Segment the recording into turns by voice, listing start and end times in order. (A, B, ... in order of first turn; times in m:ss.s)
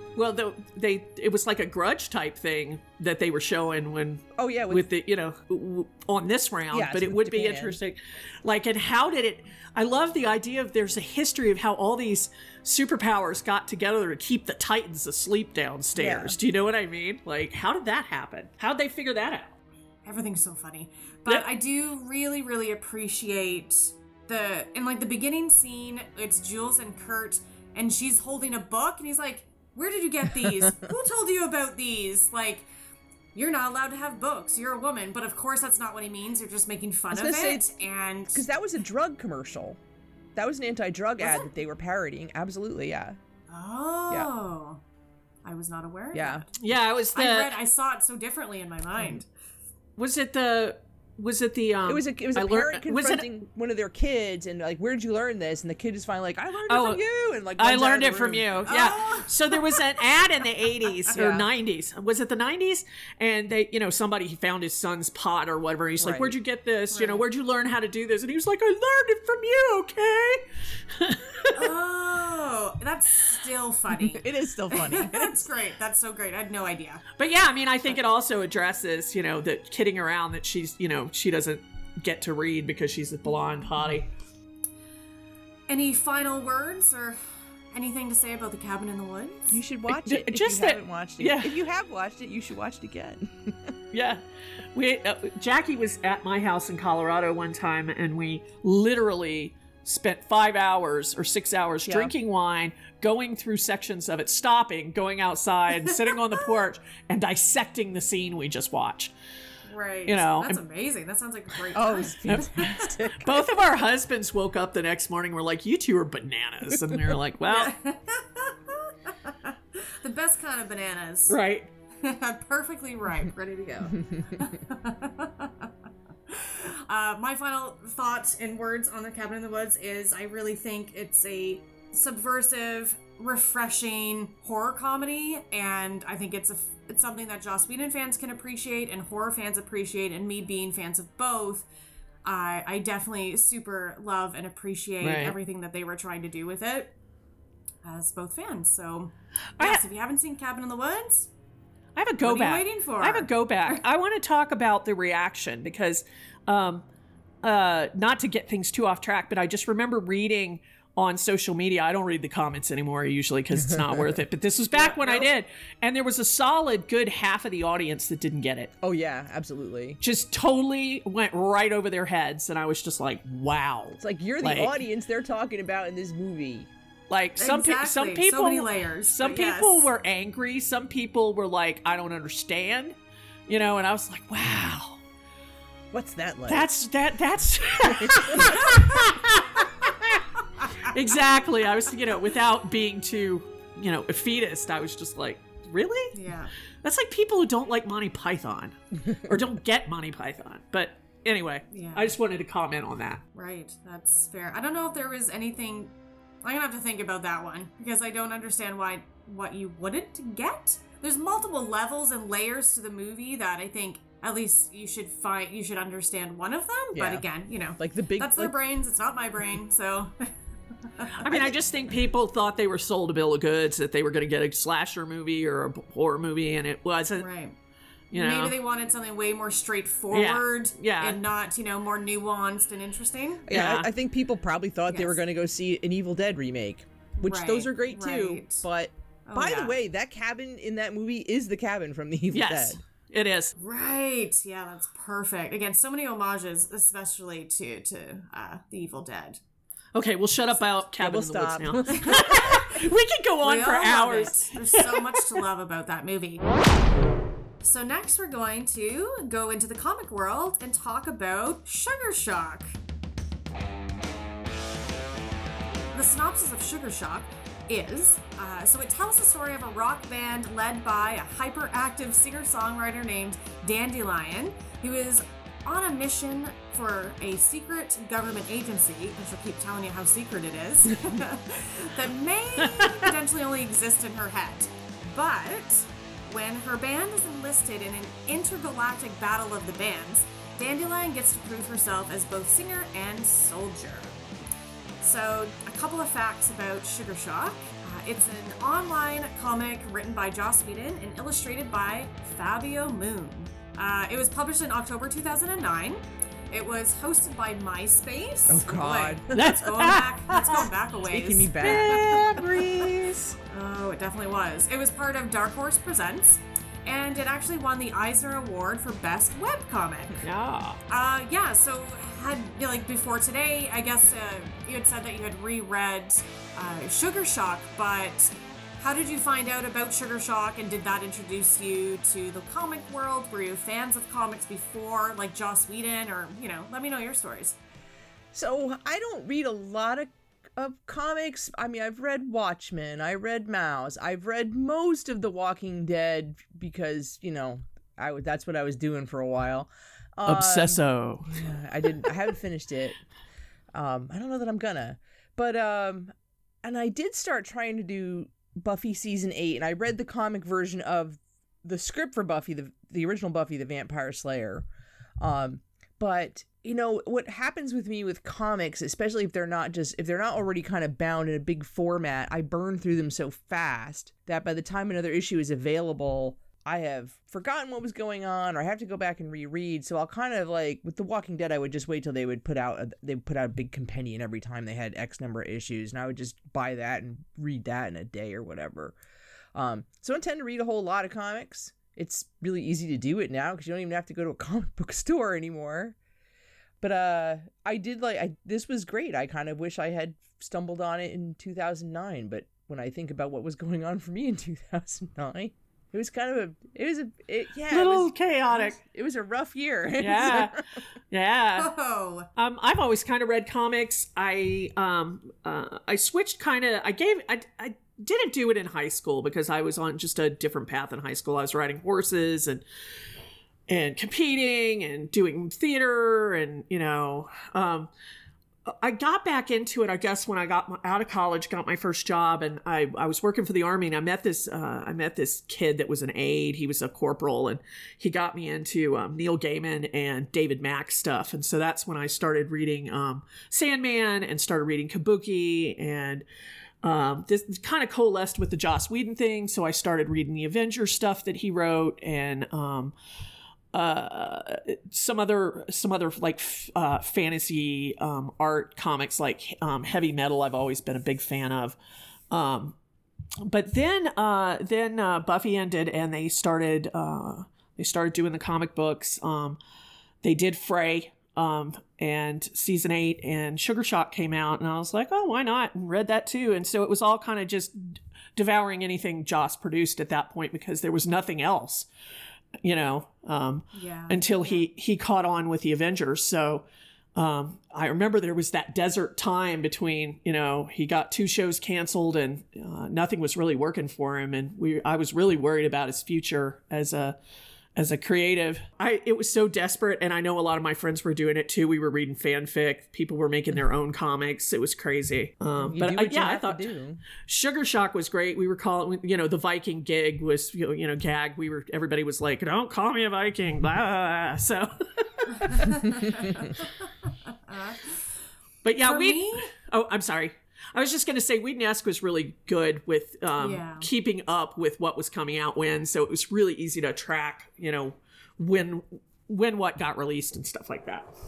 0:00.2-0:19.5 A
0:04.4-0:04.9 B
0:06.7-0:07.8 B
0:15.9-0:16.3 B
0:20.0-0:32.7 C
0:33.3-0:38.4 C
0:37.1-0:37.7 B
0:38.3-0:39.8 B
0:40.3-0:43.2 B
0:41.2-0:41.5 C
0:43.5-0:44.8 C
0:45.4-0:46.6 C
0:46.1-0:46.4 B
0:46.6-0:47.6 A
0:47.1-0:49.2 C
0:50.0-0:53.3 A
0:51.8-0:59.2 B
0:56.7-0:57.0 A
0:57.6-1:11.6 A
0:58.7-0:59.3 C
1:01.1-1:01.4 B
1:06.0-1:06.3 B
1:06.9-1:07.2 C
1:11.5-1:17.0 C
1:14.0-1:15.5 B
1:17.2-1:24.1 A
1:25.7-1:27.2 C
1:27.7-1:29.6 C
1:29.5-1:33.7 B
1:29.9-1:31.6 A
1:33.9-1:34.2 A
1:34.7-1:49.1 A
1:41.8-1:42.1 B
1:49.7-1:52.9 C
1:50.0-1:50.6 A
1:51.7-1:53.4 B
1:52.3-1:57.7 A
1:56.7-1:57.0 B
1:57.5-2:01.4 C
2:01.3-2:01.7 A
2:02.0-2:05.7 C
2:03.9-2:04.5 B
2:06.3-2:21.6 C
2:22.2-2:26.9 C
2:25.0-2:25.4 A
2:27.8-2:31.3 C
2:32.0-2:36.8 A
2:32.2-2:33.8 C
2:37.4-2:48.7 A
2:43.5-2:44.2 B
2:44.8-2:45.3 B
2:48.8-2:50.0 B
2:50.0-2:54.8 A
2:54.0-2:56.7 B
2:57.1-3:03.0 A
2:57.4-2:59.9 C
3:03.5-3:05.0 A
3:05.9-3:06.7 B
3:06.5-3:10.2 A
3:07.9-3:08.5 B
3:08.5-3:09.0 C
3:10.8-3:16.2 A
3:16.1-3:16.5 C
3:16.8-3:23.2 A
3:21.7-3:22.1 C
3:23.3-3:40.3 C
3:36.9-3:37.2 B
3:37.8-3:38.5 B
3:40.9-3:41.5 C
3:41.2-3:47.3 A
3:47.2-3:47.6 C
3:48.1-3:48.5 A
3:48.1-3:53.4 C
3:50.1-3:51.2 A
3:53.4-4:02.8 B
3:53.5-3:53.9 A
3:54.9-3:55.2 C
3:57.2-3:58.6 C
3:59.2-3:59.8 C
4:02.3-4:03.5 A
4:03.6-4:09.4 C
4:09.9-4:15.4 A
4:11.0-4:12.6 B
4:12.0-4:12.6 C
4:13.4-4:16.4 C
4:17.6-4:22.7 C
4:25.9-4:54.2 C
4:42.6-4:43.0 A
4:55.0-5:12.2 C
5:08.5-5:09.5 B
5:09.3-5:10.7 A
5:11.1-5:12.2 B
5:11.6-5:13.4 A
5:13.5-5:20.2 C
5:20.2-5:20.8 A
5:20.9-5:37.6 C
5:38.3-5:53.0 B
5:50.2-5:51.4 A
5:53.7-6:04.6 B
6:05.2-6:29.0 B
6:29.5-6:36.0 B
6:36.8-6:50.8 B
6:47.7-6:48.8 A
6:50.0-6:51.7 A
6:51.6-6:52.3 C
6:52.4-7:02.6 A
7:03.7-7:07.9 A
7:08.7-7:26.2 A
7:26.8-7:32.9 A
7:33.7-7:41.8 A
7:42.3-7:42.7 A
7:43.4-7:49.6 A
7:50.2-8:01.9 A
8:02.6-8:17.2 A
8:03.7-8:04.7 C
8:17.8-8:35.9 A
8:25.6-8:27.0 B
8:35.4-8:36.7 C
8:37.3-8:38.0 C
8:38.6-8:51.1 A
8:38.8-8:39.5 C
8:43.4-8:43.9 C